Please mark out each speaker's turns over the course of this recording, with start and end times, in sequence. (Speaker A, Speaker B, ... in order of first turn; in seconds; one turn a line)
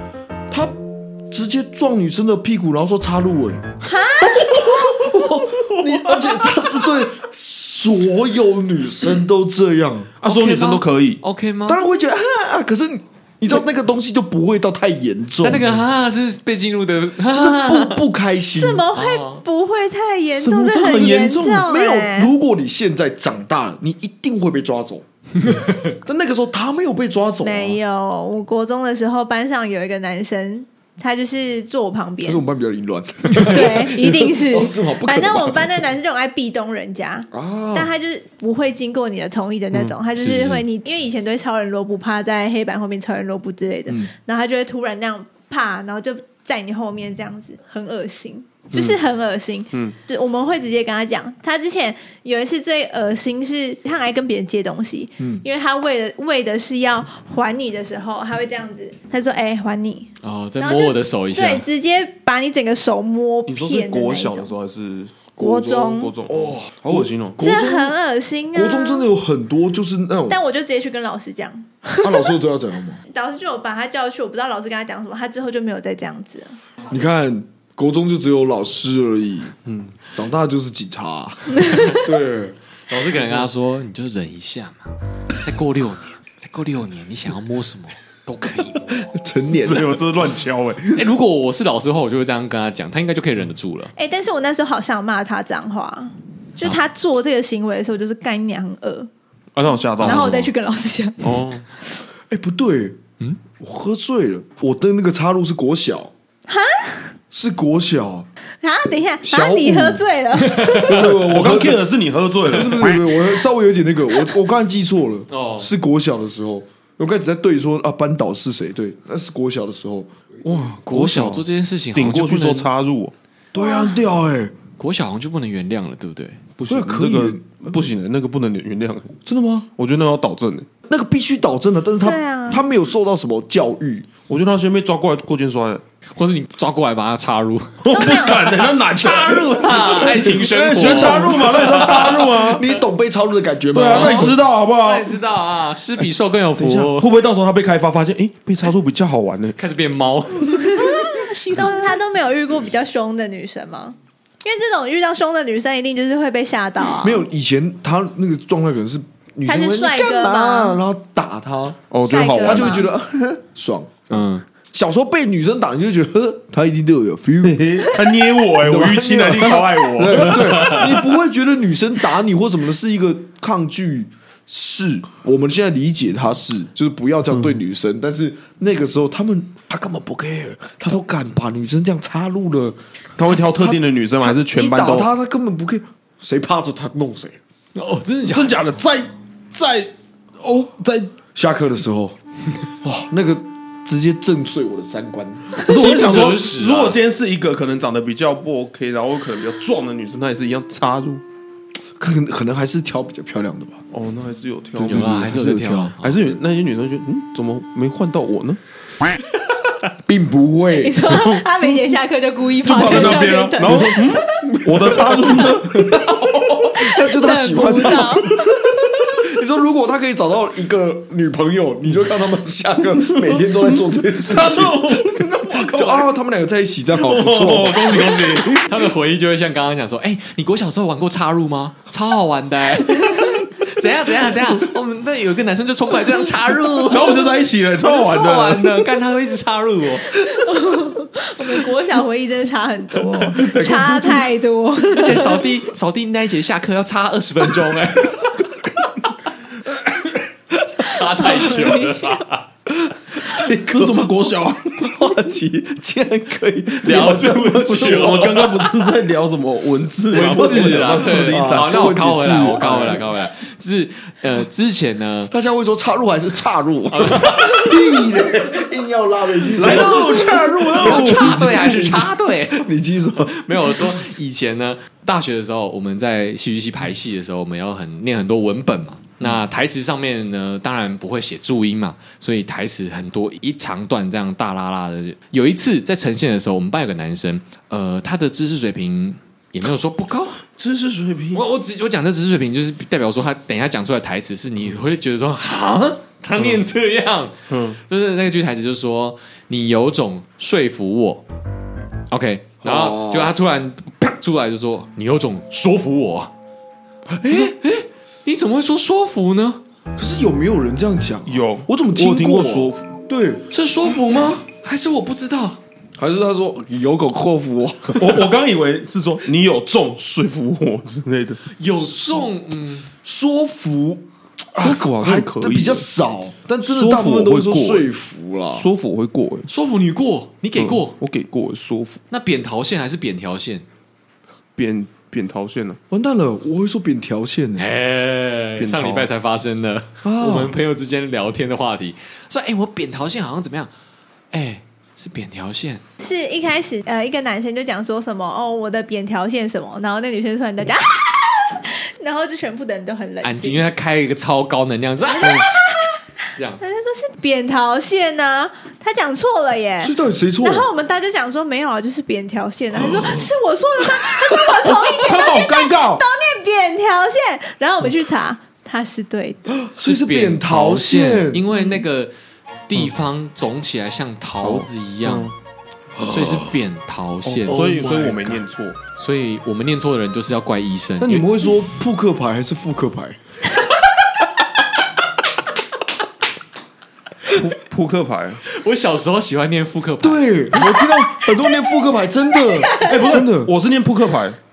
Speaker A: 0.5-10.1
Speaker B: 3.8-5.0
Speaker C: 10.2-11.2
Speaker D: 10.2-11.8
Speaker A: 11.7-15.7
Speaker D: 15.4-18.0
Speaker A: 17.3-18.9
Speaker B: 18.5-22.3
Speaker D: 18.9-19.4
Speaker C: 20.3-21.7
Speaker A: 21.6-27.8
Speaker D: 25.4-25.9
Speaker B: 27.4-32.4
Speaker A: 32.2-35.8
Speaker B: 33.3-64.5
Speaker A: 37.3-37.9
Speaker D: 40.2-40.6
Speaker D: 60.2-61.6
Speaker C: 63.5-67.4
Speaker B: 65.4-66.1
Speaker A: 66.3-67.9
Speaker B: 67.4-69.1
Speaker A: 68.5-70.4
Speaker B: 70.3-72.3
Speaker A: 72.0-73.0
Speaker B: 73.1-76.5
Speaker A: 76.9-79.5
Speaker C: 79.6-80.0
Speaker A: 80.1-82.6
Speaker B: 81.6-81.9
Speaker D: 82.9-89.1
Speaker A: 89.0-90.0
Speaker C: 89.4-91.0
Speaker D: 90.9-93.9
Speaker B: 94.0-99.1
Speaker C: 99.5-100.5
Speaker B: 100.0-101.4
Speaker D: 100.0-100.5
Speaker C: 101.2-101.6
Speaker A: 102.3-103.0
Speaker A: 103.6-106.1
Speaker B: 106.5-107.1
Speaker A: 107.3-108.3
Speaker B: 108.6-111.0
Speaker A: 109.2-110.0
Speaker D: 110.4-110.8
Speaker A: 110.8-111.8
Speaker C: 110.8-113.0
Speaker A: 112.4-120.1
Speaker D: 115.3-115.7
Speaker C: 120.4-121.4
Speaker D: 120.6-122.7
Speaker A: 120.9-121.4
Speaker C: 121.9-123.1
Speaker A: 123.5-124.5
Speaker B: 123.5-124.0
Speaker D: 124.8-126.4
Speaker C: 126.6-129.1
Speaker A: 126.7-127.8
Speaker A: 129.2-129.7
Speaker C: 129.8-130.7
Speaker A: 130.9-134.1
Speaker B: 132.0-132.6
Speaker C: 134.3-135.8
Speaker D: 136.2-142.3
Speaker C: 137.8-142.7
Speaker B: 137.9-138.6
Speaker A: 140.7-144.4
Speaker C: 143.7-145.1
Speaker D: 143.9-147.1
Speaker C: 146.6-149.6
Speaker D: 149.6-151.3
Speaker B: 150.5-157.2
Speaker A: 157.0-161.8
Speaker B: 159.4-160.8
Speaker C: 161.9-162.9
Speaker B: 162.1-162.9
Speaker A: 162.4-164.1
Speaker D: 164.1-164.4
Speaker A: 164.7-167.8
Speaker C: 167.4-171.0
Speaker A: 168.6-182.8
Speaker C: 183.2-185.1
Speaker A: 183.3-187.4
Speaker D: 187.7-188.6
Speaker C: 188.3-191.1
Speaker A: 191.3-192.2
Speaker A: 192.8-196.2
Speaker D: 195.6-197.0
Speaker C: 195.6-201.2
Speaker A: 202.0-203.8
Speaker C: 203.9-205.3
Speaker A: 204.8-205.9
Speaker D: 204.8-206.2
Speaker C: 206.0-208.6
Speaker A: 210.1-211.1
Speaker B: 210.8-214.5
Speaker C: 211.1-211.4
Speaker C: 212.6-216.0
Speaker A: 212.8-218.4
Speaker B: 216.8-218.8
Speaker A: 219.0-228.1
Speaker C: 223.0-226.1
Speaker C: 227.0-228.6
Speaker D: 227.5-237.2
Speaker C: 236.8-238.8
Speaker D: 237.8-240.3
Speaker B: 240.1-245.4
Speaker C: 243.2-244.2
Speaker D: 244.9-248.5
Speaker D: 250.8-252.4
Speaker B: 251.0-252.1
Speaker A: 252.7-254.1
Speaker C: 253.7-254.9
Speaker A: 254.8-258.6
Speaker D: 256.8-258.5
Speaker C: 257.6-261.9
Speaker D: 260.1-265.3
Speaker A: 260.1-263.0
Speaker A: 265.3-273.7
Speaker D: 266.9-267.8
Speaker C: 269.6-271.5
Speaker D: 269.6-272.7
Speaker D: 273.2-290.4
Speaker C: 290.6-291.4
Speaker D: 291.3-301.2
Speaker C: 296.4-296.6
Speaker C: 297.5-297.8
Speaker D: 302.1-306.3
Speaker A: 302.6-303.3
Speaker A: 307.1-307.6
Speaker D: 307.2-309.6
Speaker A: 310.0-313.5
Speaker C: 311.2-312.9
Speaker D: 313.5-315.6
Speaker A: 316.0-318.2
Speaker C: 317.9-321.4
Speaker D: 321.5-322.9
Speaker A: 323.0-328.7
Speaker C: 324.6-325.9
Speaker C: 326.6-327.9
Speaker C: 328.5-329.5
Speaker D: 329.5-330.9
Speaker C: 330.6-332.0
Speaker D: 332.1-333.6
Speaker C: 334.6-335.8
Speaker A: 335.9-337.6
Speaker D: 337.6-343.7
Speaker C: 338.6-339.1
Speaker A: 340.0-340.5
Speaker D: 344.3-345.8
Speaker B: 346.0-353.6
Speaker D: 353.2-355.4
Speaker B: 355.1-356.1
Speaker B: 356.6-369.5
Speaker A: 359.8-360.7
Speaker C: 364.4-366.0
Speaker A: 369.6-371.5
Speaker D: 369.7-372.1
Speaker D: 372.7-375.3
Speaker C: 374.4-375.3
Speaker A: 376.0-376.5
Speaker D: 376.0-378.4
Speaker A: 377.2-377.5
Speaker C: 377.4-378.8
Speaker D: 378.9-381.2
Speaker A: 381.0-383.2
Speaker C: 387.3-388.4
Speaker D: 388.5-390.2
Speaker A: 390.0-393.5
Speaker B: 390.6-391.6
Speaker B: 392.3-393.2
Speaker C: 392.8-394.4